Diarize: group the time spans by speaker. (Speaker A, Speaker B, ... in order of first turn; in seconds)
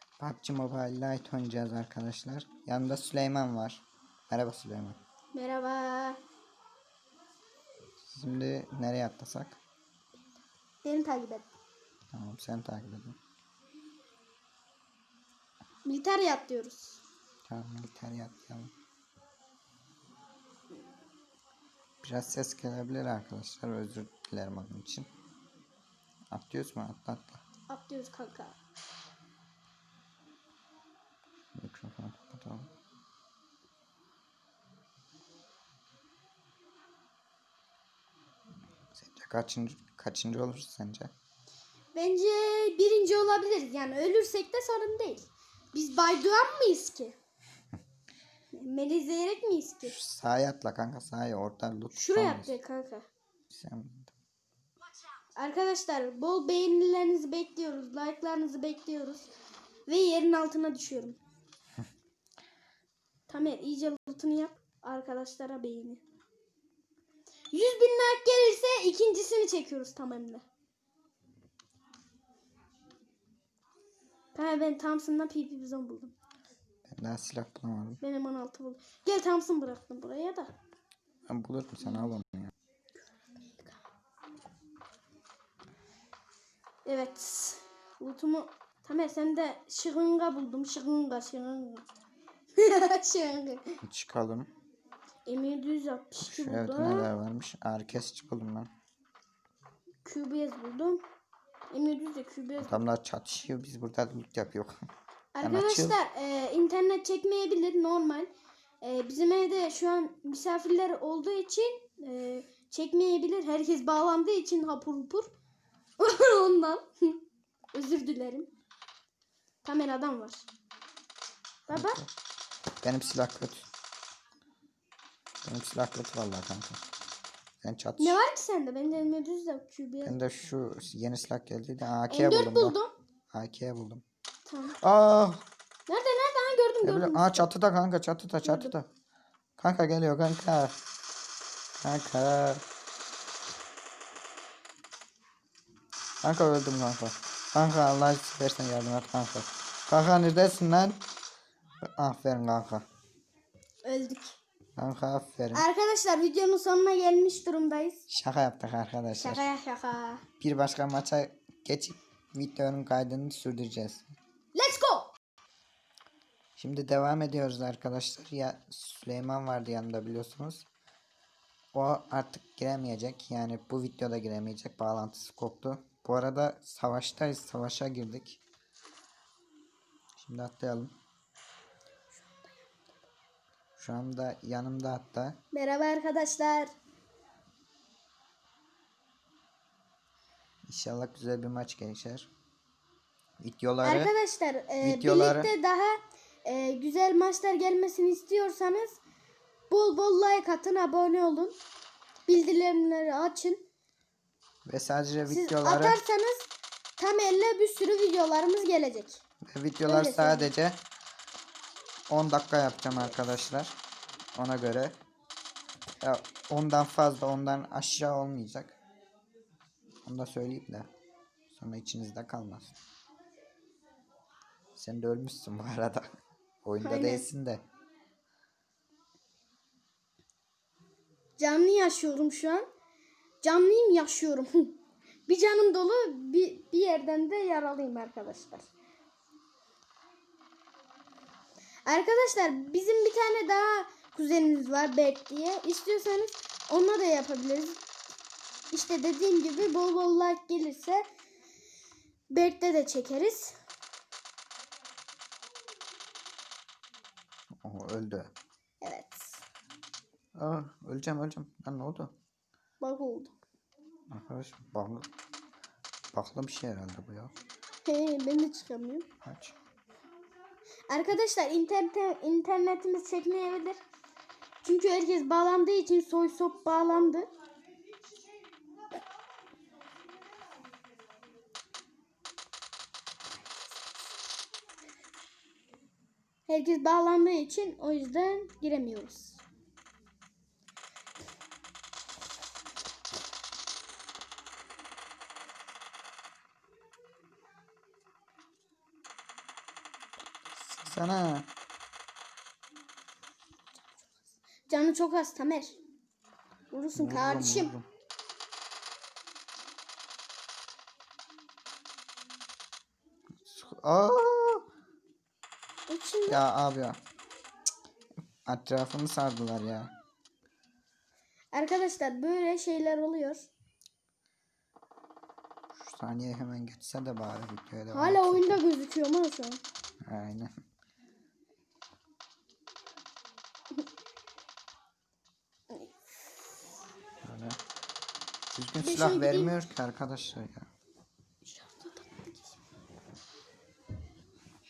Speaker A: 0.2-5.0, 8.1-9.6, 12.1-13.2, 17.5-18.7, 22.0-25.1, 26.3-27.4, 31.5-32.7, 39.0-41.1, 49.8-52.5, 53.5-54.1, 76.9-78.0, 81.3-82.5, 93.8-94.5, 96.2-98.7, 102.6-104.8, 105.4-106.0, 121.7-122.1, 122.8-123.7, 125.4-126.8, 127.6-128.2, 130.0-132.8, 133.3-134.0, 134.8-135.4, 136.8-138.9, 139.6-140.8, 141.8-142.6, 146.2-151.0, 151.8-152.8, 154.8-155.6, 158.1-159.4, 160.4-164.1, 166.6-170.7, 171.7-178.4, 180.2-180.9, 183.8-185.4, 190.7-192.3, 193.4-194.1, 194.8-195.5, 204.7-206.0, 209.4-210.8, 212.1-213.8, 214.3-215.0, 216.0-218.8, 220.0-220.9, 221.5-222.8, 224.7-226.1, 226.6-227.6, 257.6-258.3, 260.4-262.1, 264.1-265.1, 266.1-267.3, 269.2-269.5, 300.7-301.5, 306.9-307.9, 313.4-314.6, 316.3-317.0, 318.4-319.9, 325.7-328.6, 330.0-330.5, 337.2-337.6, 338.5-340.7
Speaker B: 5.3-6.2, 10.8-11.5, 15.8-17.0, 27.7-28.6, 41.9-47.1, 48.5-49.9, 51.9-53.1, 55.4-59.3, 59.9-61.2, 63.3-66.0, 67.5-70.4, 74.3-76.1, 78.0-80.5, 81.8-82.1, 86.8-91.8, 92.5-93.8, 95.2-97.1, 100.0-101.0, 101.7-102.8, 105.3-115.3, 116.0-117.2, 117.7-118.5, 119.6-120.5, 121.7-122.0, 128.0-130.2, 132.1-132.9, 134.5-134.8, 135.9-137.4, 138.4-138.7, 153.8-154.4, 155.5-158.0, 159.1-160.2, 164.5-165.1, 182.2-182.7, 185.5-186.7, 193.8-199.0, 199.7-201.6, 202.3-203.6, 205.3-209.2, 209.9-210.5, 226.8-227.2, 231.4-232.7, 233.4-238.7, 241.8-247.8, 248.7-251.0, 252.3-253.6, 258.8-259.4, 262.8-263.3, 267.8-269.1, 270.9-273.8, 274.6-277.3, 286.5-289.4, 304.7-305.8, 306.7-307.7, 315.9-316.4, 321.5-323.5, 327.9-329.6, 338.8-339.5, 341.4-342.6